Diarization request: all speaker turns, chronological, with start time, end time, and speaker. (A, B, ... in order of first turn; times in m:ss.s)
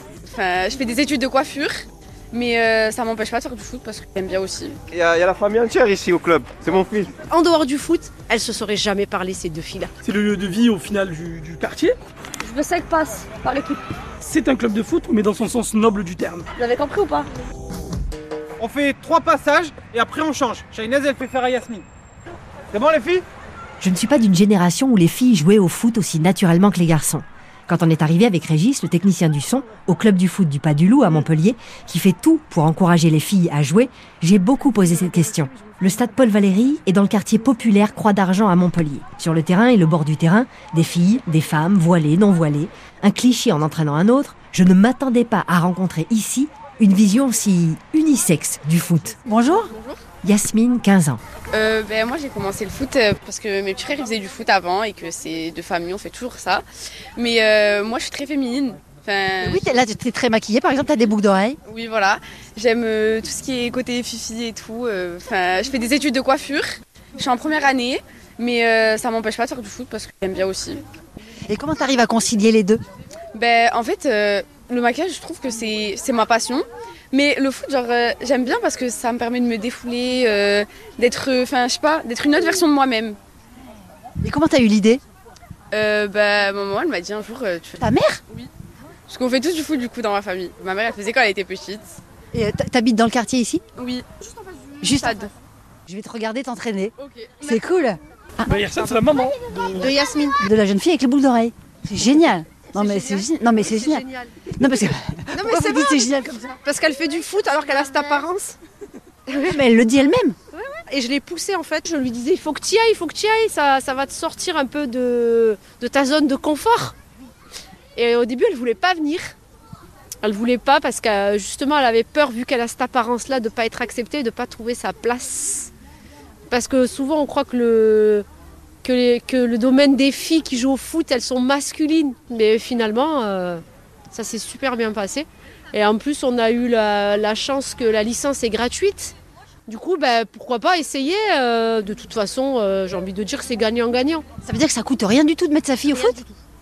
0:00.2-0:04.8 A
0:04.9-0:07.1 B
0:07.3-0:09.9 C
0:10.0-0:12.0 D
0:12.4-0:13.8 E
0:14.2-0:16.5 D
0:16.6-0:17.3 E
0:18.6-0:21.8 F
0:22.7-0:23.2 F
0:23.8-0:49.2 G
0:49.2-0:49.7 H
0:49.6-0:50.0 A
0:50.2-0:51.2 G
0:51.5-0:56.6 A
0:57.2-0:59.7 A
0:59.4-1:01.6 H
1:01.6-1:10.8 A
1:11.5-1:12.8 H
1:13.3-1:23.2 A
1:24.2-1:25.0 H
1:25.7-1:28.5 A
1:27.8-1:28.2 H
1:29.1-1:32.0 A
1:32.3-1:33.6 H
1:33.8-1:35.3 A
1:34.8-1:35.3 H
1:35.9-1:38.6 H
1:37.0-1:37.4 A
1:38.4-1:39.9 D
1:39.8-1:40.4 C
1:39.8-1:46.6 H
1:42.7-1:44.4 C
1:45.3-1:48.6 C
1:49.3-1:49.6 C
1:49.4-1:50.4 H
1:50.5-1:56.9 C
1:57.9-1:59.3 C
2:00.2-2:05.7 C
2:06.5-2:08.2 C
2:08.8-2:19.1 C
2:19.7-2:24.2 C
2:24.4-2:26.2 H
2:25.9-2:26.3 C